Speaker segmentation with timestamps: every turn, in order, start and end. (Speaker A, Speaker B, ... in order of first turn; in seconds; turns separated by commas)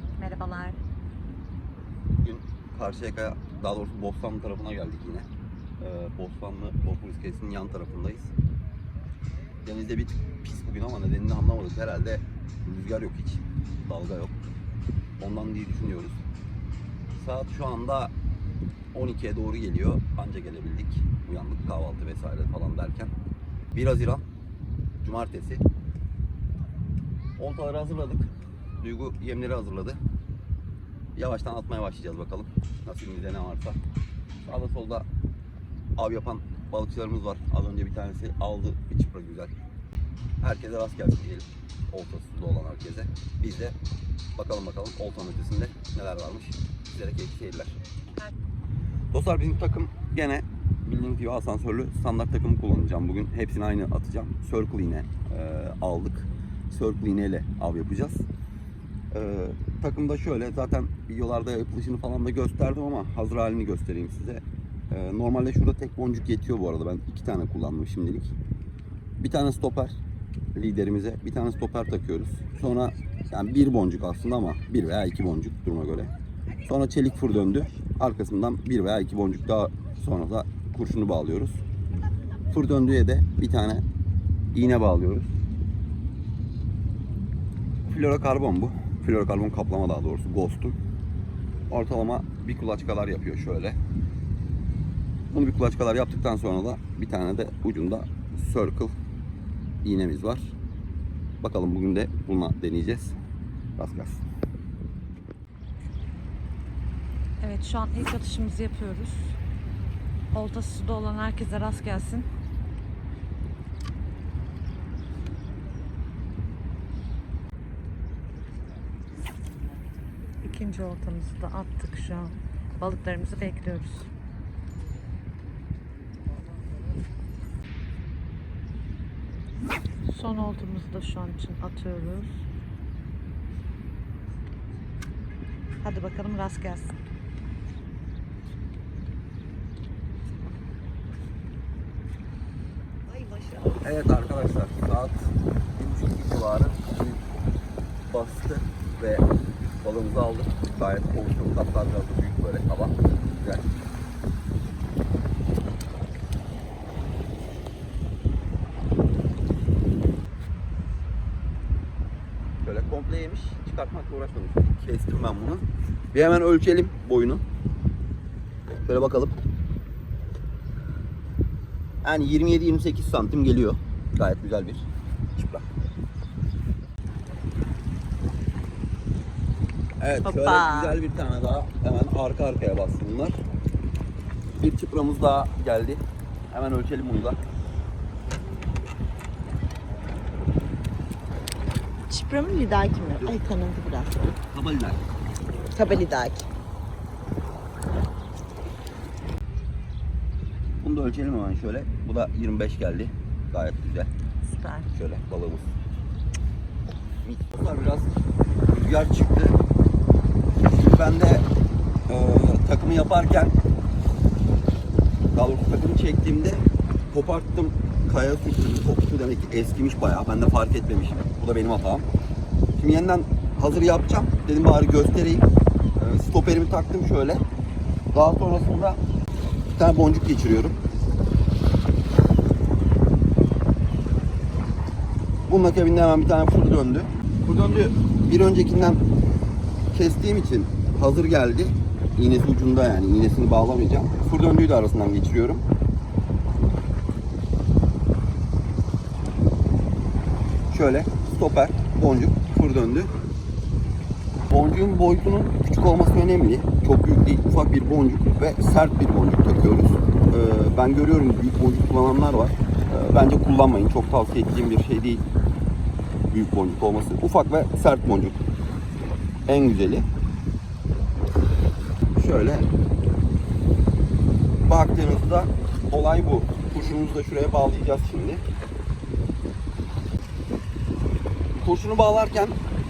Speaker A: 0.2-0.8, Speaker B: 2.2-5.3, Speaker B: 5.8-8.3, Speaker B: 9.6-14.3, Speaker B: 15.2-16.2, Speaker B: 17.1-18.1, Speaker B: 18.9-23.1, Speaker B: 23.7-24.2, Speaker B: 25.0-25.6, Speaker B: 27.4-30.0, Speaker B: 31.2-33.8, Speaker B: 34.5-35.1, Speaker B: 36.0-39.5, Speaker B: 40.4-43.8, Speaker B: 44.4-47.8, Speaker B: 49.1-58.3, Speaker B: 59.1-68.3, Speaker B: 69.2-70.0, Speaker B: 70.5-76.1, Speaker B: 76.7-81.6, Speaker B: 82.5-83.8, Speaker B: 84.5-85.3, Speaker B: 87.9-90.8, Speaker B: 91.7-93.8, Speaker B: 95.3-98.9, Speaker B: 99.8-100.5, Speaker B: 101.4-103.2, Speaker B: 103.8-104.2, Speaker C: 107.4-109.4, Speaker C: 110.3-112.3, Speaker C: 120.4-124.1, Speaker C: 130.1-132.3, Speaker C: 135.8-136.9, Speaker A: 143.1-143.8, Speaker B: 143.8-147.2, Speaker B: 148.1-149.2, Speaker B: 149.8-153.7, Speaker B: 162.6-167.4, Speaker B: 168.8-169.4, Speaker B: 172.0-175.7, Speaker B: 180.0-183.4, Speaker A: 180.2-181.0, Speaker B: 184.6-187.4, Speaker A: 192.1-194.4, Speaker B: 194.5-195.0, Speaker A: 195.7-196.5, Speaker B: 200.8-204.1, Speaker A: 204.5-204.9, Speaker B: 204.9-205.7, Speaker B: 207.2-208.1, Speaker B: 208.7-209.6, Speaker B: 210.7-211.4, Speaker B: 212.1-213.5, Speaker B: 215.3-222.1, Speaker B: 222.8-227.4, Speaker B: 228.1-229.0, Speaker B: 229.8-230.8, Speaker B: 235.5-239.0, Speaker B: 239.9-245.6, Speaker B: 250.7-253.1, Speaker B: 254.5-265.2, Speaker B: 266.3-268.4, Speaker B: 269.5-270.1, Speaker B: 272.1-272.7, Speaker B: 274.7-278.4, Speaker B: 281.6-282.6